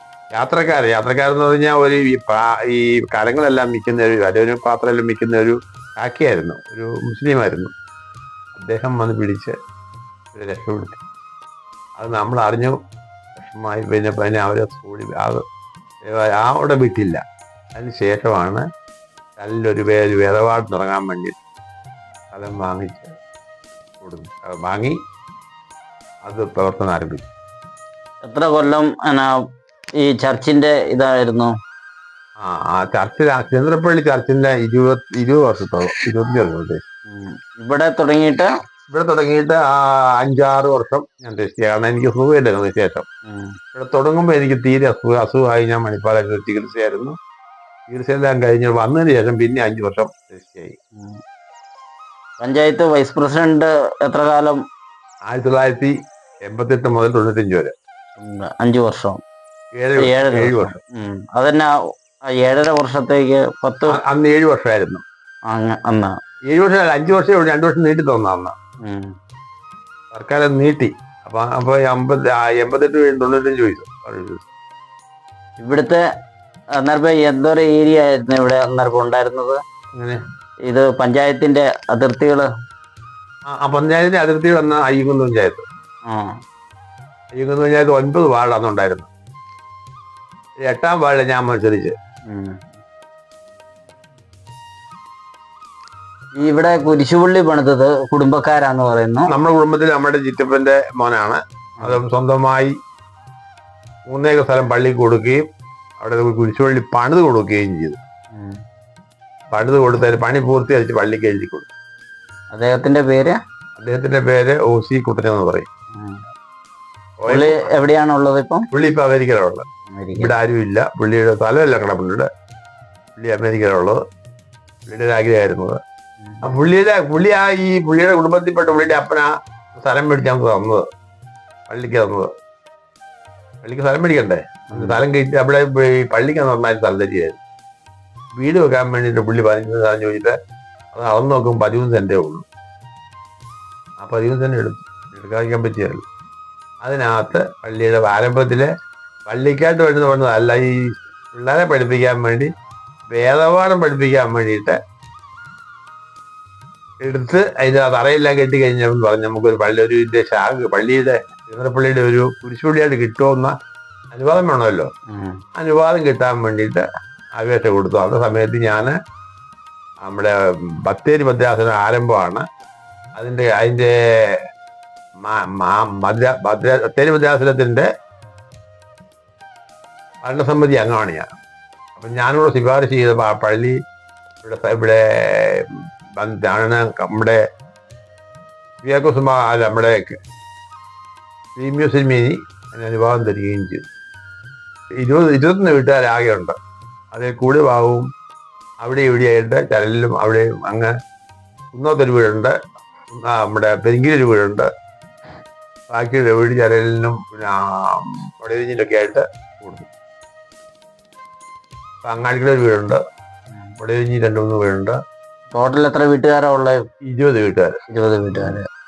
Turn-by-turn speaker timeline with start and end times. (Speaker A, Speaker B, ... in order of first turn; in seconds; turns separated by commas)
Speaker A: 0.3-7.7, Speaker A: 8.5-9.5, Speaker A: 10.3-11.0, Speaker A: 12.0-12.8, Speaker A: 13.3-15.4, Speaker A: 16.1-17.2, Speaker A: 17.8-18.6, Speaker A: 19.4-21.4, Speaker A: 22.3-23.1, Speaker A: 24.0-24.9, Speaker A: 26.2-27.2, Speaker B: 28.2-29.3, Speaker B: 30.0-31.5, Speaker A: 32.4-36.8, Speaker B: 37.1-38.5, Speaker A: 38.9-43.0, Speaker B: 43.3-43.5, Speaker A: 43.7-47.1, Speaker A: 47.9-50.8, Speaker B: 52.4-54.6, Speaker A: 55.3-55.9, Speaker A: 56.5-57.7, Speaker B: 58.2-59.2, Speaker A: 59.7-60.8, Speaker B: 60.0-61.7, Speaker B: 62.4-64.0, Speaker A: 63.9-65.0, Speaker B: 65.5-66.2, Speaker A: 66.5-68.5, Speaker B: 68.8-69.1, Speaker A: 70.1-74.5, Speaker B: 75.6-76.0, Speaker B: 76.8-79.6, Speaker B: 80.7-82.5, Speaker A: 83.5-85.6, Speaker A: 87.3-89.1, Speaker A: 90.6-91.9, Speaker B: 92.3-92.8, Speaker B: 96.4-99.3, Speaker A: 99.3-102.7, Speaker A: 104.1-105.4, Speaker A: 106.0-108.0, Speaker A: 109.5-111.7, Speaker B: 112.5-113.4, Speaker A: 113.8-115.7, Speaker A: 117.2-117.7, Speaker B: 117.3-118.7, Speaker A: 118.7-119.6, Speaker B: 119.9-120.3, Speaker A: 120.2-122.3, Speaker A: 123.2-124.0, Speaker A: 124.9-125.8, Speaker A: 126.4-130.8, Speaker A: 131.7-132.3, Speaker A: 133.6-137.4, Speaker B: 134.7-135.0, Speaker A: 138.4-140.3, Speaker A: 140.9-142.4, Speaker A: 144.0-146.0, Speaker A: 146.8-148.7, Speaker A: 149.3-152.5, Speaker A: 153.1-154.8, Speaker A: 157.0-163.5, Speaker A: 164.1-164.9, Speaker B: 165.1-165.4, Speaker A: 165.6-166.8, Speaker A: 167.4-168.9, Speaker A: 170.0-170.3, Speaker A: 170.8-172.4, Speaker A: 173.2-174.4, Speaker A: 175.2-177.8, Speaker A: 180.2-181.3, Speaker A: 181.9-183.8, Speaker A: 184.4-185.7, Speaker A: 186.2-187.4, Speaker A: 188.8-190.2, Speaker A: 191.6-193.8, Speaker A: 195.0-196.5, Speaker A: 197.1-198.1, Speaker A: 198.8-200.9, Speaker A: 201.7-202.5, Speaker A: 203.1-204.7, Speaker A: 205.9-209.9, Speaker A: 212.0-213.0, Speaker A: 213.8-214.9, Speaker B: 215.5-216.8, Speaker A: 217.1-217.7, Speaker B: 217.9-218.7